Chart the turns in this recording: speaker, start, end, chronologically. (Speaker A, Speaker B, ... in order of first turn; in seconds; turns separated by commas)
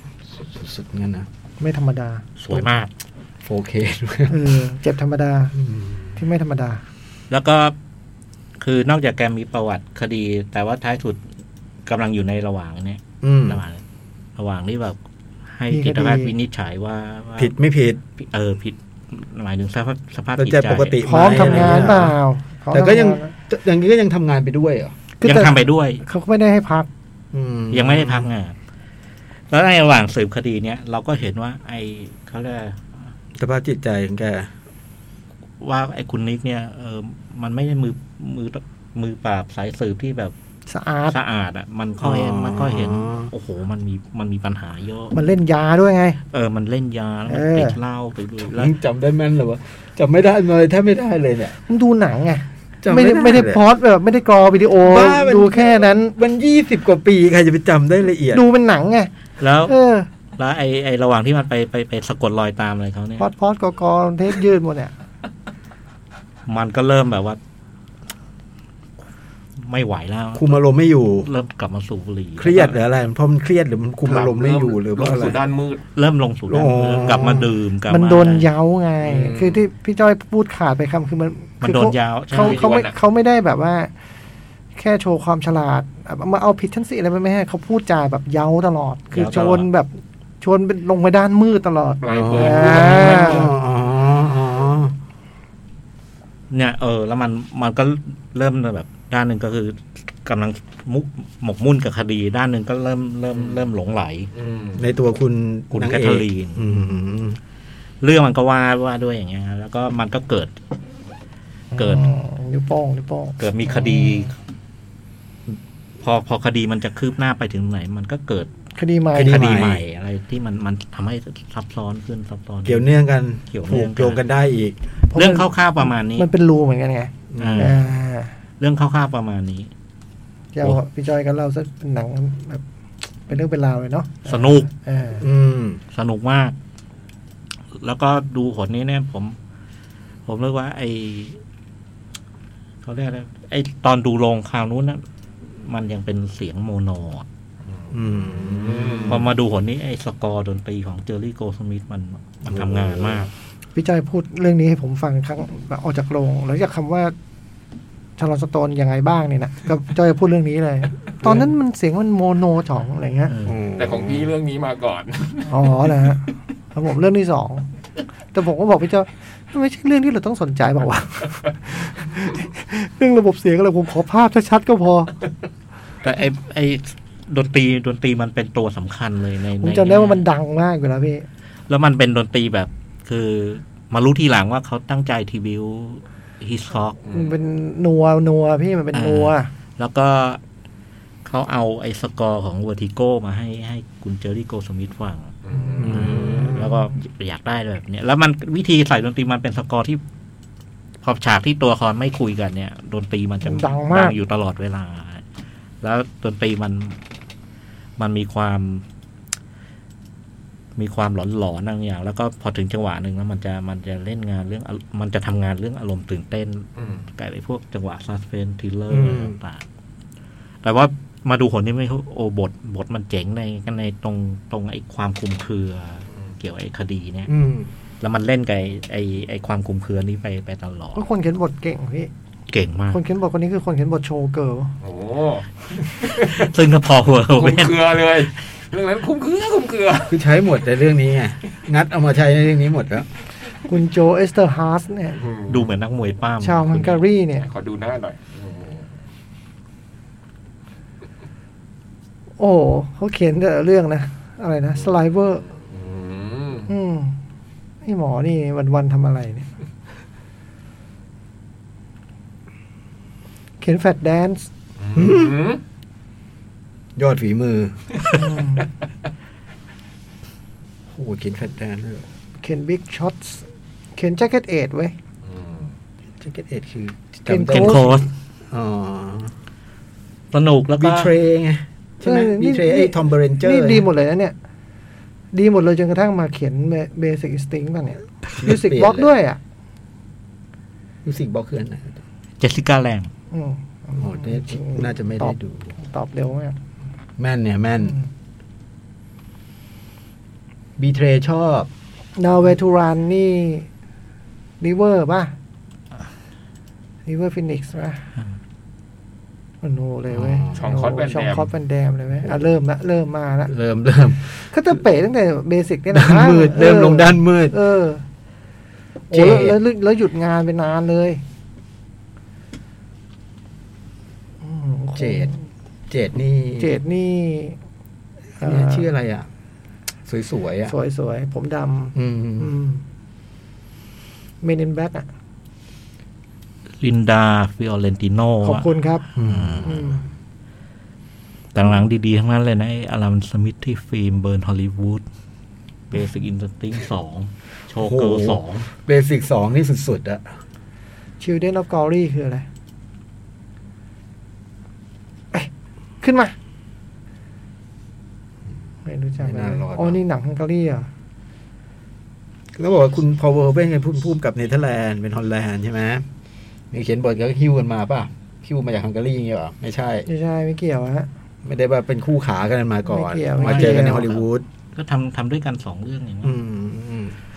Speaker A: 0.3-1.3, Speaker B: 1.6-2.2, Speaker C: 2.4-2.9, Speaker A: 3.4-4.3, Speaker B: 4.3-5.5, Speaker A: 5.5-6.1, Speaker B: 6.2-6.8, Speaker C: 7.3-7.7, Speaker C: 8.6-11.2, Speaker C: 11.8-13.8, Speaker A: 13.2-13.6, Speaker C: 14.3-15.0, Speaker C: 15.5-17.5, Speaker B: 15.7-16.3, Speaker A: 17.4-18.0, Speaker C: 18.2-22.1, Speaker A: 20.4-22.2, Speaker B: 21.0-23.3, Speaker A: 22.7-24.9, Speaker B: 25.2-26.9, Speaker C: 25.2-26.0, Speaker A: 27.3-28.3, Speaker C: 27.7-28.6, Speaker C: 29.5-32.9, Speaker A: 33.4-34.5, Speaker C: 35.6-40.3, Speaker B: 40.7-41.2, Speaker C: 41.1-45.1, Speaker A: 42.0-43.3, Speaker B: 45.1-46.2, Speaker C: 46.3-48.7, Speaker B: 47.3-47.8, Speaker A: 48.4-51.5, Speaker B: 51.7-56.1, Speaker A: 52.8-53.6, Speaker A: 54.8-58.4, Speaker B: 58.3-59.1, Speaker C: 59.4-59.7, Speaker B: 59.6-60.1, Speaker C: 60.4-63.3, Speaker B: 63.2-64.9, Speaker C: 66.5-67.4, Speaker C: 69.6-70.5, Speaker A: 70.3-71.3, Speaker C: 71.2-72.7, Speaker A: 72.4-75.4, Speaker D: 74.0-75.8, Speaker C: 75.9-78.5, Speaker A: 76.5-77.5, Speaker B: 77.9-83.9, Speaker D: 79.0-79.6, Speaker C: 81.6-82.6, Speaker D: 82.3-82.9, Speaker B: 84.8-93.5, Speaker C: 89.1-89.7, Speaker D: 92.0-93.5, Speaker A: 92.1-94.9, Speaker C: 96.5-104.3, Speaker D: 103.3-103.6, Speaker D: 104.3-104.8, Speaker A: 104.8-107.4, Speaker C: 105.7-106.6, Speaker C: 108.0-110.5, Speaker B: 111.7-114.3, Speaker C: 111.7-112.0, Speaker C: 113.4-114.3, Speaker C: 116.0-118.5, Speaker B: 118.7-119.4, Speaker A: 119.1-119.8, Speaker C: 119.2-122.8, Speaker A: 122.6-124.8, Speaker C: 123.5-124.2, Speaker B: 125.1-128.3, Speaker C: 125.1-126.3, Speaker A: 127.3-127.8, Speaker C: 127.4-127.9, Speaker C: 128.6-129.7, Speaker B: 130.5-132.6, Speaker B: 133.3-135.2, Speaker C: 134.3-134.7, Speaker A: 135.2-135.8, Speaker C: 135.9-136.6, Speaker C: 137.7-139.3, Speaker C: 140.2-141.4, Speaker C: 142.8-147.2, Speaker D: 147.7-149.2, Speaker A: 147.9-149.3, Speaker C: 149.1-153.3, Speaker A: 152.5-153.3, Speaker B: 153.7-157.1, Speaker B: 158.2-163.3, Speaker A: 161.2-161.5, Speaker C: 163.3-163.6, Speaker A: 163.4-164.3, Speaker D: 163.8-165.9, Speaker B: 165.5-167.7, Speaker B: 168.3-175.1, Speaker C: 176.0-180.2, Speaker B: 179.6-181.2, Speaker C: 181.7-187.0, Speaker D: 187.0-187.3, Speaker B: 187.1-189.5, Speaker C: 188.9-190.4, Speaker C: 191.2-200.0, Speaker D: 195.4-196.6, Speaker A: 195.8-196.6, Speaker C: 201.0-205.2, Speaker B: 203.4-204.2, Speaker C: 205.8-207.0, Speaker C: 208.0-208.8, Speaker C: 210.8-219.6, Speaker D: 216.8-217.1, Speaker A: 218.9-219.4, Speaker C: 220.6-227.3, Speaker A: 227.3-227.7, Speaker C: 228.0-231.0, Speaker B: 230.9-232.1, Speaker C: 232.5-233.0, Speaker B: 232.9-234.7, Speaker D: 234.8-236.5, Speaker C: 236.2-238.0, Speaker D: 237.3-240.2, Speaker A: 240.1-243.1, Speaker B: 243.7-245.2, Speaker D: 245.1-245.7, Speaker C: 245.5-247.0, Speaker B: 246.4-247.5, Speaker D: 247.4-248.9, Speaker B: 252.4-255.4, Speaker D: 255.5-256.7, Speaker B: 256.7-257.2, Speaker B: 257.8-259.5, Speaker B: 263.6-264.5, Speaker D: 264.8-265.6, Speaker A: 264.9-265.4, Speaker A: 266.9-268.0, Speaker B: 268.1-268.7, Speaker A: 270.9-272.0, Speaker B: 272.4-274.9, Speaker D: 275.2-275.7, Speaker A: 276.2-279.3, Speaker B: 277.3-278.0, Speaker C: 277.5-278.1, Speaker C: 280.3-281.1, Speaker A: 280.8-283.9, Speaker B: 282.0-284.3, Speaker B: 285.3-289.4, Speaker A: 288.4-289.1, Speaker A: 291.0-292.0, Speaker C: 292.4-293.1, Speaker B: 293.3-296.6, Speaker A: 294.0-295.7, Speaker A: 297.2-298.0, Speaker A: 300.8-301.7, Speaker B: 302.2-303.7, Speaker B: 304.6-305.3, Speaker B: 307.1-308.1, Speaker B: 309.6-313.5, Speaker A: 310.1-310.6, Speaker D: 310.5-311.5, Speaker A: 313.5-314.4, Speaker B: 314.5-318.0, Speaker A: 315.9-317.5, Speaker B: 319.1-321.2, Speaker A: 319.1-319.6, Speaker B: 324.4-325.4, Speaker A: 324.9-325.3, Speaker A: 325.9-326.7, Speaker B: 326.6-327.6, Speaker B: 328.4-328.9, Speaker A: 328.4-329.3, Speaker A: 330.1-330.7, Speaker B: 330.6-332.8, Speaker A: 331.9-332.5, Speaker B: 334.4-335.1, Speaker C: 336.8-339.8, Speaker B: 338.4-339.1, Speaker A: 339.1-339.8, Speaker B: 339.6-340.0, Speaker C: 341.5-345.0, Speaker C: 345.9-348.7, Speaker A: 347.8-350.3, Speaker B: 351.2-352.4, Speaker B: 356.0-356.3, Speaker B: 358.8-360.9, Speaker A: 359.2-360.0, Speaker A: 362.6-366.1, Speaker A: 366.7-370.1, Speaker B: 370.1-371.1, Speaker A: 371.4-374.4, Speaker B: 372.9-374.1, Speaker C: 373.4-376.4, Speaker A: 376.2-377.1